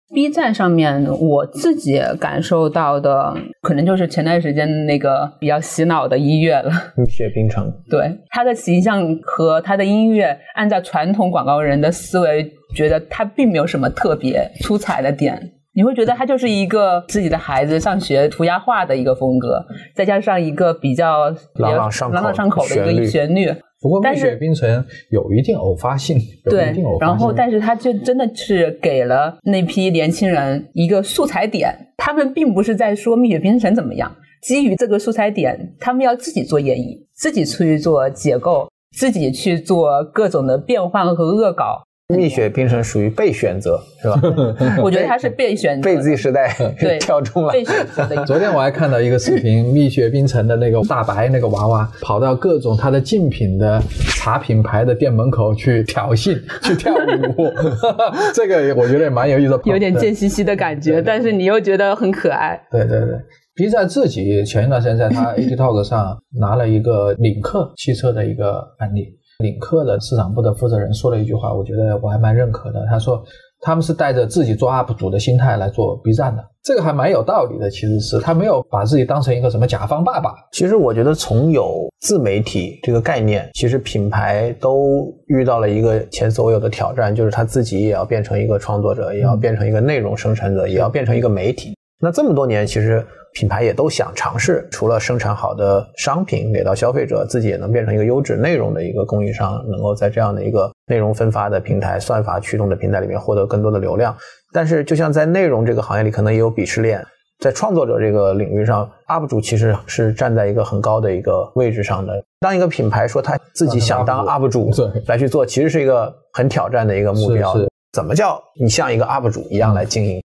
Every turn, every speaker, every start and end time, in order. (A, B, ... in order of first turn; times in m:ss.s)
0:00.1-0:06.9 A
0:07.0-0:07.8 B
0:07.9-0:24.4 A
0:21.6-0:23.2 B
0:23.8-0:27.4 C
0:26.5-0:42.2 A
0:42.1-0:45.2 B
0:44.3-0:44.8 C
0:44.7-0:46.2 A
0:45.8-0:48.2 B
0:46.8-0:48.3 A
0:48.2-1:01.3 C
0:59.6-1:02.6 A
1:02.7-1:20.4 C
1:20.5-2:00.2 B
1:53.6-1:55.0 C
1:57.2-1:57.7 C